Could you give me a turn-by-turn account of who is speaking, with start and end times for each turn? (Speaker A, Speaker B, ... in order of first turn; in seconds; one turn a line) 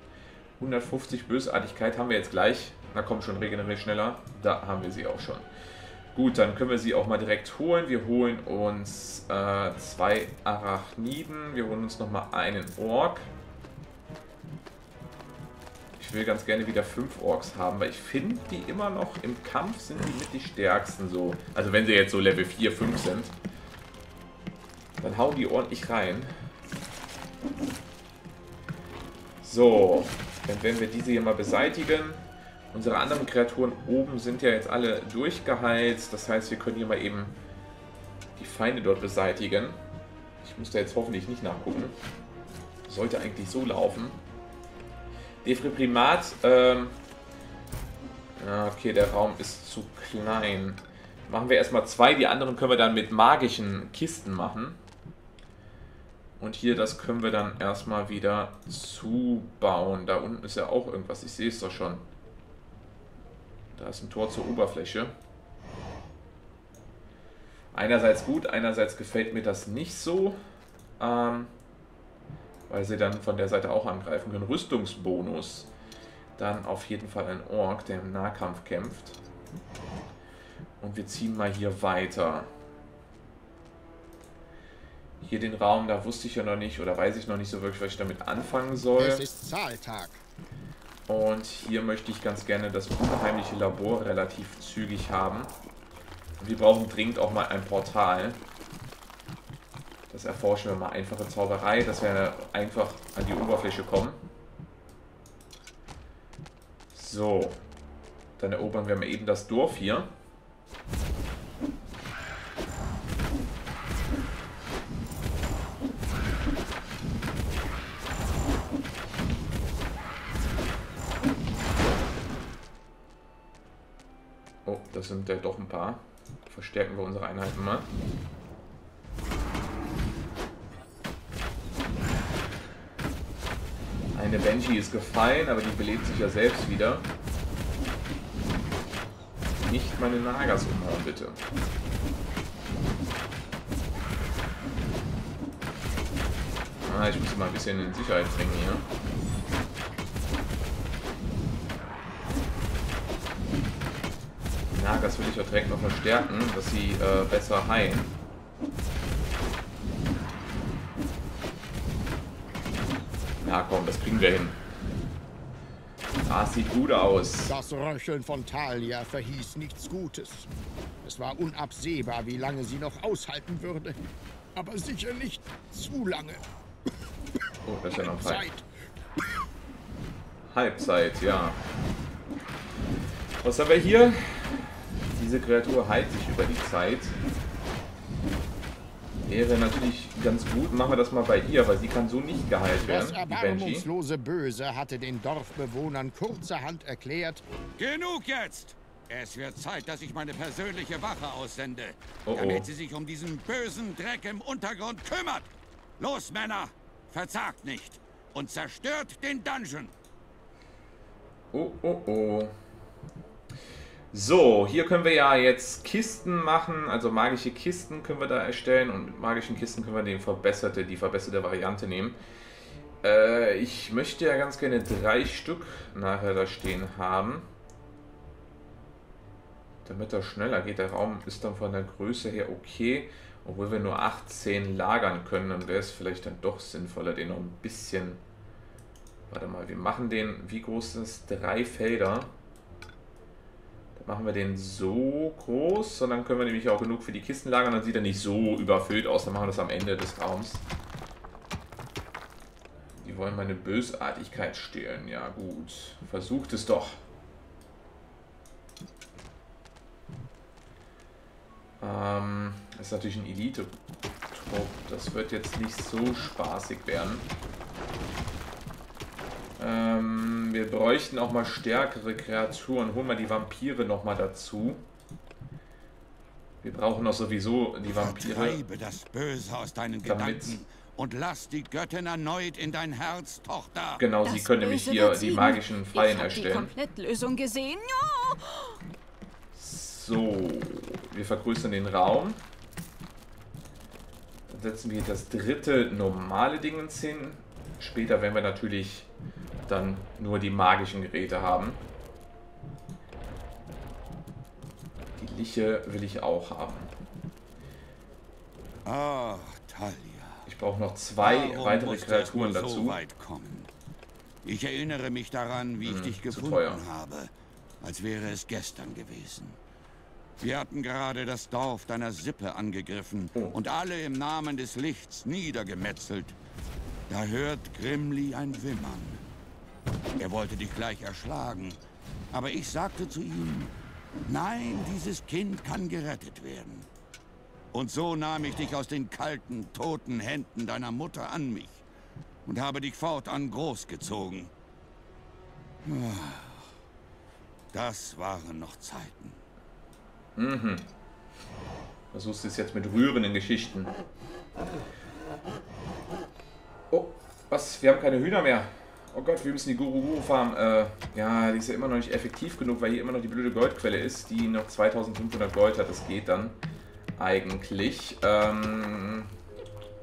Speaker A: 0.6-5.5
Speaker A: 6.1-13.3
Speaker A: 16.0-23.4
Speaker A: 25.0-26.3
Speaker A: 29.4-37.3
Speaker A: 38.4-39.8
Speaker A: 40.4-42.0
Speaker A: 42.9-44.2
Speaker A: 45.4-47.0
Speaker A: 48.4-54.8
Speaker A: 56.4-62.0
Speaker A: 63.7-65.1
Speaker A: 67.7-70.4
Speaker A: 71.0-71.5
Speaker A: 72.7-75.7
Speaker A: 76.4-79.2
Speaker A: 80.8-82.5
Speaker A: 85.2-89.3
Speaker B: 89.0-90.2
Speaker A: 91.1-95.5
Speaker A: 96.4-98.4
Speaker A: 100.1-104.2
Speaker A: 106.9-107.6
Speaker A: 108.4-110.1
Speaker A: 124.7-127.9
Speaker A: 134.1-137.1
Speaker A: 139.6-141.4
Speaker A: 146.8-148.8
Speaker A: 154.7-158.1
Speaker A: 163.4-164.6
Speaker A: 166.3-167.6
Speaker B: 167.5-170.5
Speaker B: 171.0-174.0
Speaker B: 174.6-176.4
Speaker A: 177.7-178.5
Speaker B: 178.0-178.7
Speaker A: 180.5-181.6
Speaker A: 183.4-187.2
Speaker A: 189.3-193.9
Speaker B: 192.8-197.4
Speaker C: 197.8-209.9
Speaker A: 202.3-202.7
Speaker A: 211.5-212.5
Speaker A: 214.1-222.2
Speaker A: 223.0-227.5
Speaker A: 229.8-238.2
Speaker A: 239.3-242.3
Speaker A: 243.9-250.7
Speaker A: 253.0-257.0
Speaker A: 261.8-263.7
Speaker A: 264.3-267.3
Speaker A: 269.6-274.8
Speaker A: 276.6-278.6
Speaker C: 277.9-284.1
Speaker A: 280.0-280.6
Speaker A: 284.0-286.7
Speaker D: 284.2-288.7
Speaker A: 289.5-292.4
Speaker A: 294.5-299.1
Speaker A: 299.7-301.8
Speaker A: 305.2-306.9
Speaker C: 308.9-310.5
Speaker A: 310.5-313.0
Speaker C: 311.2-313.7
Speaker C: 314.4-319.6
Speaker A: 315.8-316.9
Speaker C: 320.4-326.4
Speaker C: 327.1-329.2
Speaker C: 330.2-331.8
Speaker C: 332.3-333.7
Speaker C: 334.3-336.9
Speaker C: 337.7-341.8
Speaker C: 342.4-344.5
Speaker C: 345.9-346.7
Speaker C: 347.7-349.4
Speaker A: 350.4-350.9
Speaker A: 352.1-353.9
Speaker A: 356.9-366.6
Speaker A: 367.2-369.3